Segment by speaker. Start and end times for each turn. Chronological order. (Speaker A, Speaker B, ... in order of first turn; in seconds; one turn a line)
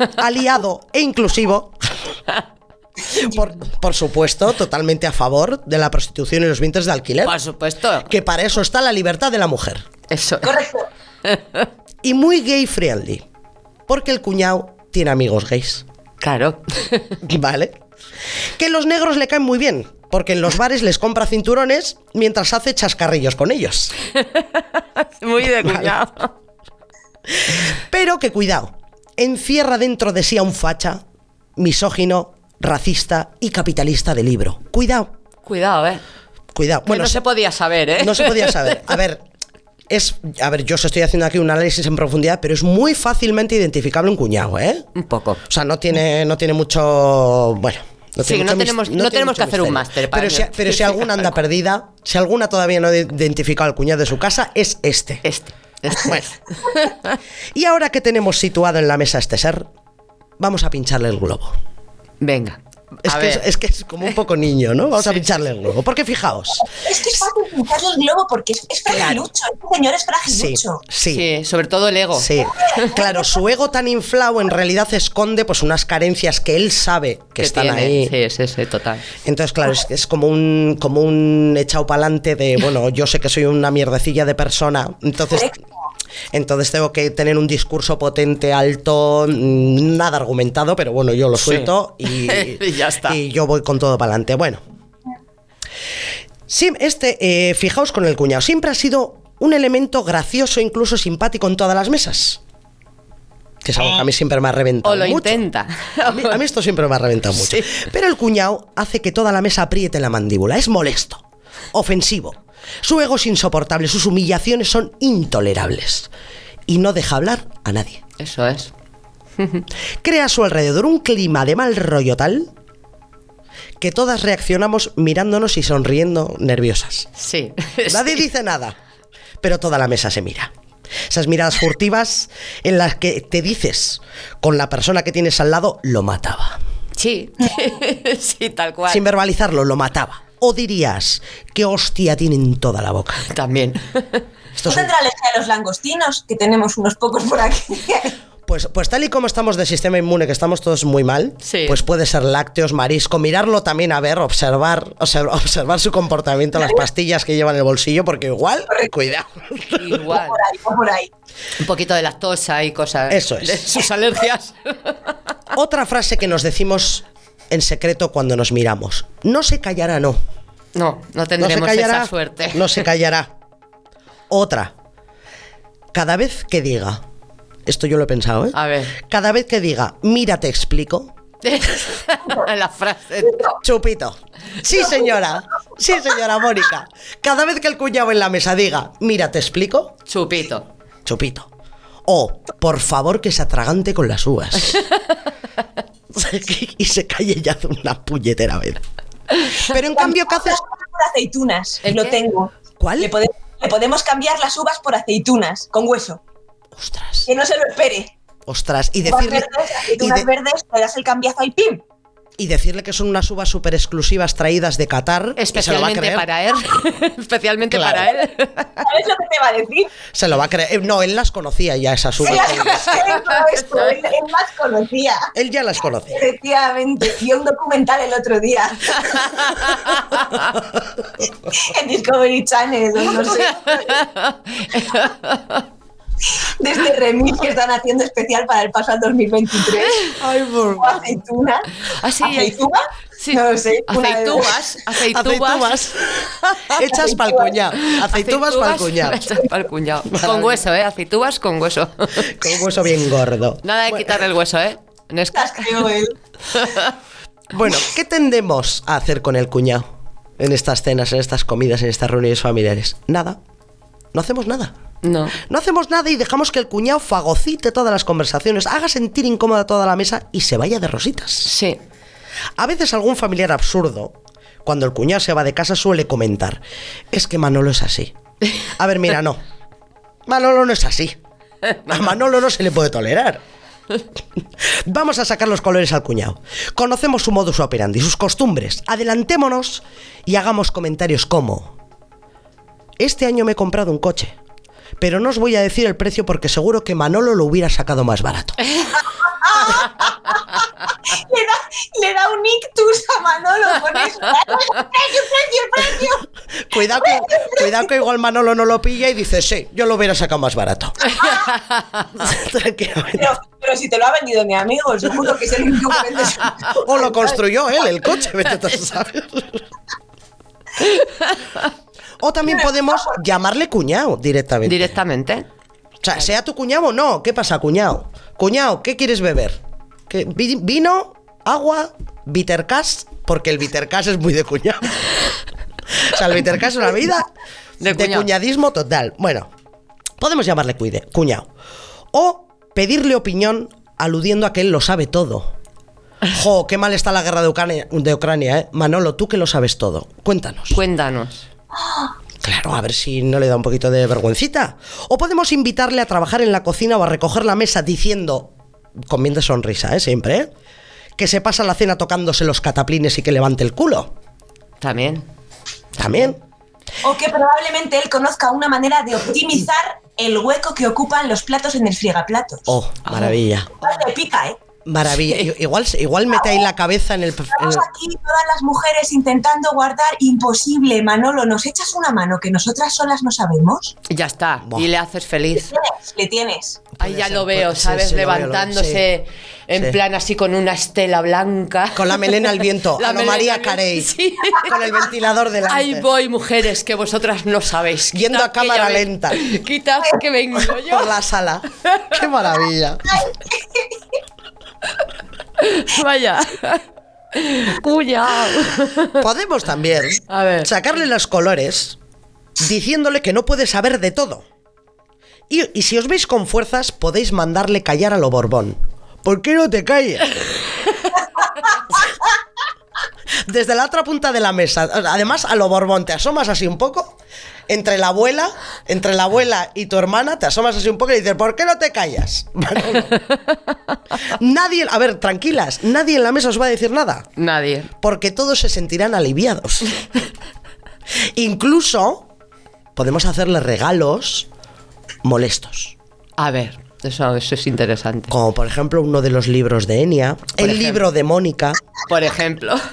Speaker A: 0.1-1.9
Speaker A: 3.1-7.4
Speaker B: 7.2-8.1
Speaker A: 8.0-9.9
Speaker B: 10.1-10.6
Speaker C: 10.4-10.9
Speaker B: 11.2-11.7
Speaker A: 12.0-13.2
Speaker A: 13.9-15.8
Speaker B: 16.2-17.2
Speaker A: 17.2-17.8
Speaker A: 18.6-23.9
Speaker B: 24.1-26.3
Speaker A: 25.6-25.9
Speaker A: 27.3-31.0
Speaker A: 31.6-35.1
Speaker B: 35.5-36.0
Speaker A: 36.5-37.2
Speaker B: 36.9-38.8
Speaker A: 38.0-39.2
Speaker A: 39.9-44.9
Speaker B: 45.0-45.4
Speaker A: 45.5-55.2
Speaker B: 48.2-51.3
Speaker B: 55.2-57.2
Speaker A: 56.0-56.3
Speaker A: 57.5-59.7
Speaker A: 60.4-61.5
Speaker B: 62.2-63.4
Speaker A: 63.0-66.7
Speaker B: 65.0-65.2
Speaker C: 66.7-70.8
Speaker A: 68.9-69.3
Speaker A: 70.3-71.2
Speaker B: 71.1-73.0
Speaker A: 72.2-78.1
Speaker C: 72.5-73.3
Speaker B: 77.4-79.1
Speaker A: 79.2-85.6
Speaker A: 86.3-94.6
Speaker B: 91.3-93.2
Speaker A: 96.5-102.4
Speaker A: 103.6-105.4
Speaker B: 104.8-106.4
Speaker A: 106.0-116.1
Speaker B: 107.4-107.8
Speaker A: 116.7-118.0
Speaker B: 118.2-118.7
Speaker B: 119.4-119.7
Speaker A: 120.0-122.5
Speaker A: 123.8-127.1
Speaker B: 127.2-128.2
Speaker A: 127.9-128.8
Speaker A: 129.4-130.5
Speaker A: 131.1-136.6
Speaker B: 137.0-139.0
Speaker A: 138.9-143.3
Speaker B: 143.3-144.2
Speaker A: 144.6-144.9
Speaker C: 144.7-148.2
Speaker A: 148.5-160.1
Speaker B: 151.4-151.8
Speaker B: 159.8-160.4
Speaker C: 160.1-161.1
Speaker B: 161.6-165.2
Speaker A: 163.1-163.8
Speaker A: 165.5-170.2
Speaker B: 170.8-172.8
Speaker A: 171.4-173.3
Speaker A: 174.3-174.7
Speaker A: 175.9-177.0
Speaker A: 177.7-181.1
Speaker B: 178.5-179.0
Speaker B: 181.4-183.6
Speaker A: 183.6-189.9
Speaker B: 190.1-190.7
Speaker A: 191.1-191.5
Speaker A: 192.1-194.8
Speaker B: 194.7-195.0
Speaker A: 196.1-198.8
Speaker A: 199.5-200.6
Speaker C: 199.8-206.2
Speaker B: 201.8-202.2
Speaker A: 202.8-203.1
Speaker A: 206.8-207.3
Speaker C: 207.3-208.1
Speaker A: 208.5-210.3
Speaker C: 209.0-211.8
Speaker A: 212.4-216.3
Speaker B: 215.4-218.9
Speaker A: 217.7-218.1
Speaker C: 218.8-219.9
Speaker A: 220.1-223.0
Speaker C: 222.2-225.3
Speaker B: 222.3-224.0
Speaker A: 225.3-226.2
Speaker C: 226.1-229.7
Speaker B: 229.6-230.0
Speaker C: 231.5-234.1
Speaker B: 233.2-235.7
Speaker C: 236.3-240.2
Speaker B: 239.9-240.2
Speaker A: 240.2-241.1
Speaker C: 240.8-244.7
Speaker B: 241.9-242.6
Speaker B: 243.2-245.8
Speaker A: 245.1-249.2
Speaker B: 246.4-246.8
Speaker C: 246.8-247.6
Speaker B: 247.8-252.3
Speaker A: 250.1-250.6
Speaker A: 252.2-254.2
Speaker B: 253.6-255.9
Speaker C: 255.3-256.2
Speaker B: 256.5-256.9
Speaker A: 257.5-259.9
Speaker A: 260.4-263.4
Speaker A: 264.1-264.7
Speaker B: 265.0-265.4
Speaker A: 265.4-271.5
Speaker B: 271.5-271.8
Speaker A: 272.6-278.1
Speaker A: 278.7-279.4
Speaker A: 280.3-281.2
Speaker B: 281.7-281.9
Speaker A: 281.9-283.4
Speaker A: 284.7-291.8
Speaker A: 293.0-294.4
Speaker A: 295.0-298.7
Speaker B: 298.7-298.9
Speaker C: 299.4-300.1
Speaker C: 301.1-306.3
Speaker A: 306.6-311.1
Speaker C: 306.9-307.7
Speaker B: 311.1-312.1
Speaker A: 312.2-313.4
Speaker C: 313.2-317.3
Speaker A: 316.7-319.6
Speaker B: 320.8-321.6
Speaker A: 322.2-325.0
Speaker B: 324.6-325.5
Speaker A: 326.0-335.1
Speaker A: 335.9-337.3
Speaker B: 337.8-338.3
Speaker A: 337.9-339.5
Speaker A: 340.2-341.5
Speaker A: 342.1-345.5
Speaker A: 346.3-350.8
Speaker B: 350.7-351.4
Speaker C: 351.8-352.1
Speaker A: 352.4-358.5
Speaker A: 359.1-360.5
Speaker A: 361.2-364.1
Speaker B: 364.8-365.2
Speaker A: 366.0-366.4
Speaker C: 367.0-372.7
Speaker A: 372.7-373.7
Speaker B: 373.1-373.4
Speaker C: 373.8-374.6
Speaker A: 374.9-377.9
Speaker B: 375.2-375.5
Speaker C: 377.5-384.0
Speaker B: 384.1-385.7
Speaker C: 385.6-386.9
Speaker A: 387.0-389.0
Speaker B: 387.0-394.9
Speaker A: 389.7-390.0
Speaker A: 391.9-396.1
Speaker B: 395.7-401.1
Speaker A: 398.1-399.4
Speaker A: 400.8-403.3
Speaker B: 401.8-402.2
Speaker C: 403.2-403.9
Speaker B: 405.6-409.2
Speaker A: 409.1-412.0
Speaker B: 410.3-410.7
Speaker A: 412.6-414.4
Speaker A: 415.5-420.4
Speaker A: 423.5-427.2
Speaker A: 427.7-433.2
Speaker A: 434.2-437.3
Speaker B: 437.4-437.9
Speaker A: 438.0-440.0
Speaker A: 441.3-442.3
Speaker A: 442.9-444.5
Speaker A: 445.2-445.9
Speaker B: 446.4-448.4
Speaker A: 448.3-451.8
Speaker B: 450.6-451.0
Speaker B: 452.1-452.8